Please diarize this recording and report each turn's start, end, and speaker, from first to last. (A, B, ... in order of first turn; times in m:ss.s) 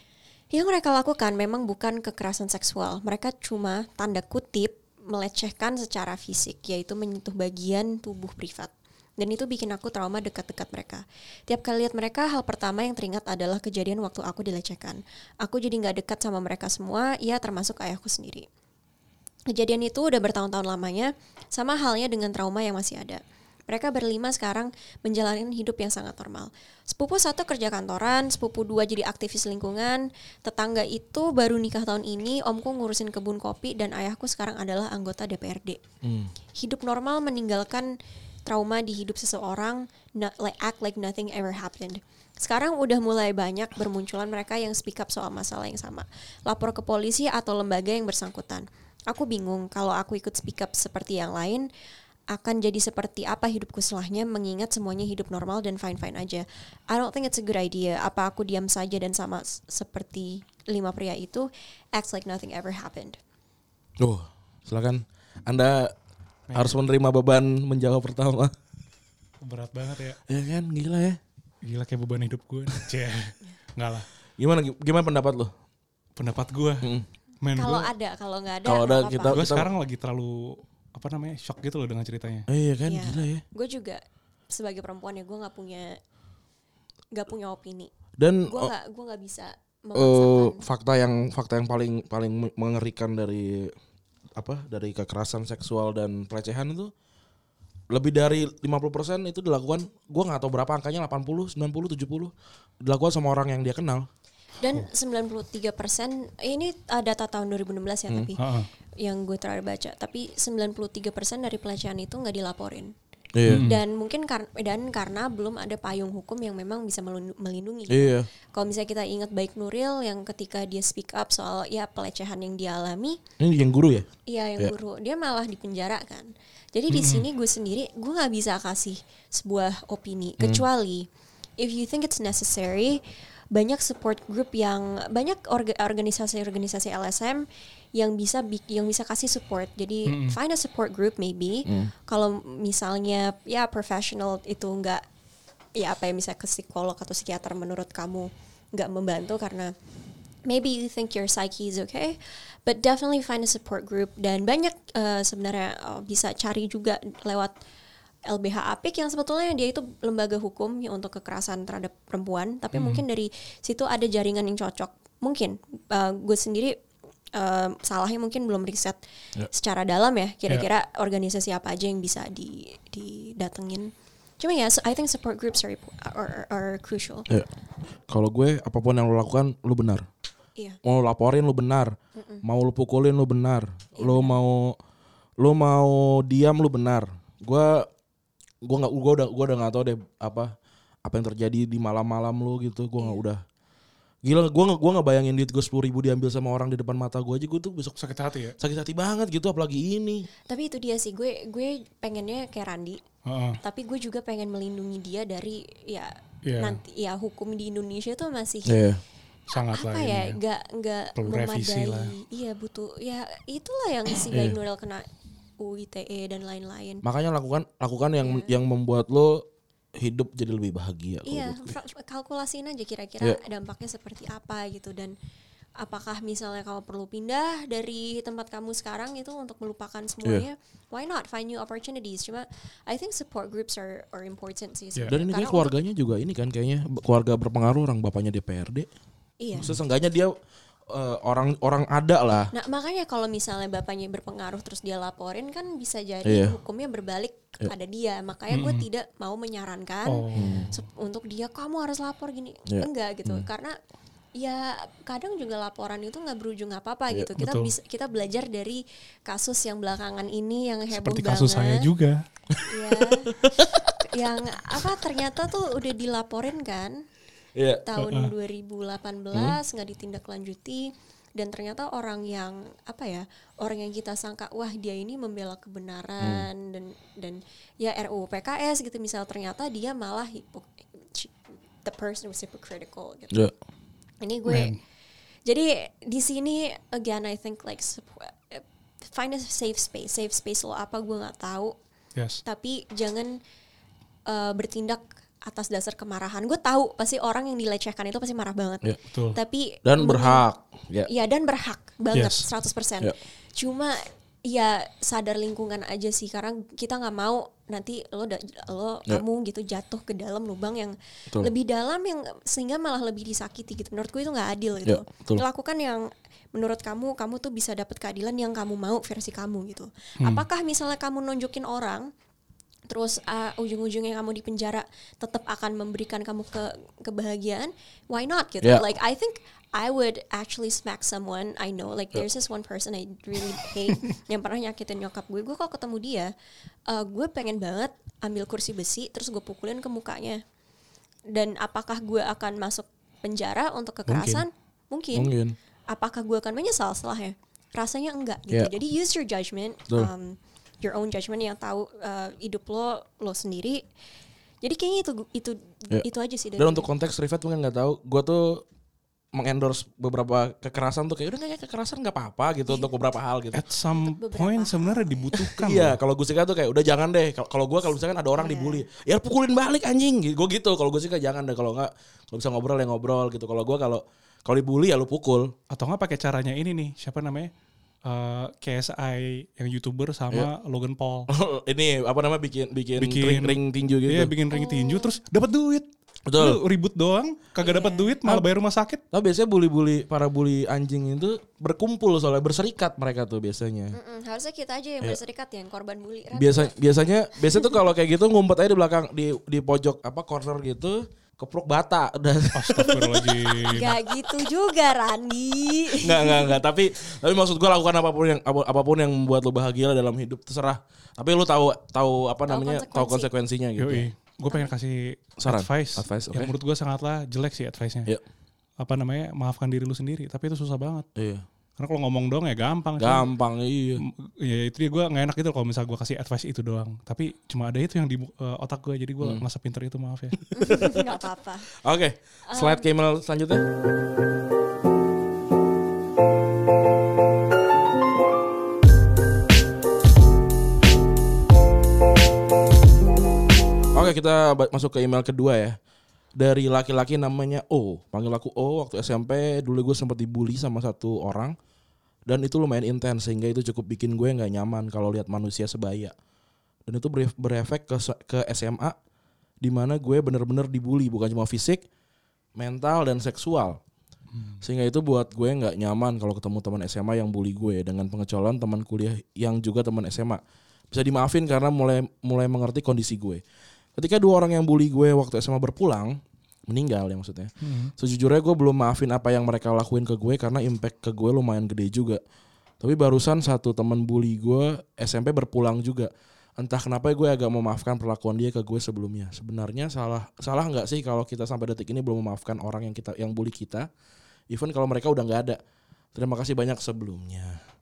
0:00.5-0:18.5 A
0:19.5-0:35.8 A
0:36.0-0:36.3 B
0:36.6-0:37.9 A
0:38.5-0:51.7 A
0:52.3-1:03.2 A
1:04.0-1:05.9 B
1:06.5-1:06.8 C
1:06.6-1:08.5 B
1:09.4-1:10.2 C
1:10.3-1:11.2 B
1:11.6-1:14.1 C
1:14.4-1:15.5 B
1:16.2-1:16.9 C
1:16.8-1:17.1 B
1:17.4-1:17.9 C
1:17.6-1:19.5 A
1:18.6-1:19.7 B
1:19.3-1:22.5 C
1:22.5-1:23.4 B
1:22.9-1:26.0 A
1:27.1-1:27.9 A
1:28.2-1:28.7 B
1:28.5-1:30.6 A
1:30.0-1:33.8 B
1:34.4-1:36.9 B
1:37.9-1:42.3 B
1:42.8-1:44.1 B
1:44.6-1:48.4 A
1:48.4-1:48.7 C
1:49.0-1:52.9 A
1:53.4-1:53.7 B
1:53.5-1:53.8 C
1:53.6-2:03.2 A
1:57.9-1:58.3 B
2:03.4-2:04.7 B
2:04.3-2:11.1 A
2:06.9-2:07.3 C
2:11.6-2:13.0 A
2:13.5-2:25.0 A
2:20.1-2:20.4 C
2:21.7-2:21.9 B
2:25.8-2:29.7 A
2:30.5-2:37.5 A
2:38.3-2:46.8 A
2:42.7-2:43.0 C
2:47.3-2:49.0 A
2:49.5-2:57.3 A
2:58.1-3:00.1 B
3:00.8-3:04.8 B
3:02.2-3:02.4 A
3:04.0-3:04.4 A
3:05.4-3:07.9 B
3:08.6-3:10.5 B
3:11.0-3:13.4 B
3:14.2-3:18.0 B
3:18.0-3:18.6 C
3:18.6-3:20.3 B
3:20.5-3:23.0 A
3:23.3-3:23.6 C
3:23.6-3:28.8 A
3:26.4-3:26.8 C
3:28.7-3:29.0 B
3:29.5-3:30.4 C
3:29.5-3:35.1 A
3:31.2-3:32.1 C
3:34.3-3:34.6 B
3:35.6-3:37.0 A
3:37.0-3:39.4 B
3:38.2-3:38.5 A
3:40.0-3:41.8 B
3:41.3-3:45.1 A
3:45.8-3:55.7 A
3:55.1-3:58.9 B
3:59.4-3:59.7 A
3:59.6-4:00.3 B
4:00.9-4:02.5 B
4:02.5-4:13.8 A
4:06.2-4:06.6 B
4:08.5-4:08.9 C
4:10.1-4:10.8 C
4:10.4-4:10.7 B
4:12.7-4:13.5 B
4:14.4-4:21.9 A
4:17.4-4:17.7 C
4:20.9-4:22.2 C
4:22.5-4:23.9 B
4:22.6-4:27.0 A
4:27.6-4:27.9 B
4:27.8-4:43.5 A
4:28.0-4:28.3 C
4:29.3-4:29.6 B
4:36.2-4:36.5 B
4:44.2-4:44.8 A
4:44.5-4:44.8 C
4:45.5-4:51.8 A
4:52.2-4:52.4 C
4:52.4-4:53.4 A
4:54.3-5:00.4 A
4:59.1-4:59.4 C
4:59.8-5:01.1 B
5:01.1-5:22.1 A
5:02.1-5:02.5 C
5:14.8-5:15.4 B
5:22.9-5:36.3 A
5:36.9-5:40.4 A
5:41.3-5:45.3 A
5:44.1-5:44.4 C
5:45.1-5:45.6 B
5:45.9-5:53.8 A
5:54.6-5:56.9 A
5:56.6-5:58.6 B
5:59.3-6:03.6 B
6:03.5-6:06.0 C
6:04.0-6:05.4 A
6:05.6-6:15.5 B
6:08.4-6:08.8 A
6:15.7-6:17.5 C
6:18.0-6:21.3 C
6:21.3-6:24.3 B
6:23.0-6:29.0 C
6:24.5-6:25.1 A
6:26.3-6:26.6 B
6:27.6-6:28.2 A
6:29.1-6:34.0 B
6:33.9-6:36.8 A
6:36.3-6:43.4 B
6:37.5-6:37.8 A
6:42.6-6:44.0 C
6:43.6-6:46.6 A
6:46.0-6:54.1 B
6:52.5-6:53.3 A
6:53.8-6:58.1 C
6:55.4-6:56.5 B
6:58.8-7:01.1 C
7:01.2-7:01.4 B
7:01.8-7:03.3 C
7:03.0-7:04.0 B
7:04.0-7:10.4 C
7:10.5-7:11.7 A
7:10.6-7:11.1 B
7:11.7-7:13.7 B
7:12.5-7:12.9 A
7:23.9-7:25.8 B
7:26.4-7:31.6 B
7:32.3-7:36.1 B
7:36.9-7:39.0 B
7:39.6-7:41.8 B
7:42.6-7:43.8 B
7:44.3-7:44.6 C
7:44.6-7:53.4 B
7:54.0-8:02.2 B
7:57.6-7:57.9 C
8:02.8-8:13.9 B
8:14.5-8:15.6 B
8:16.1-8:17.6 B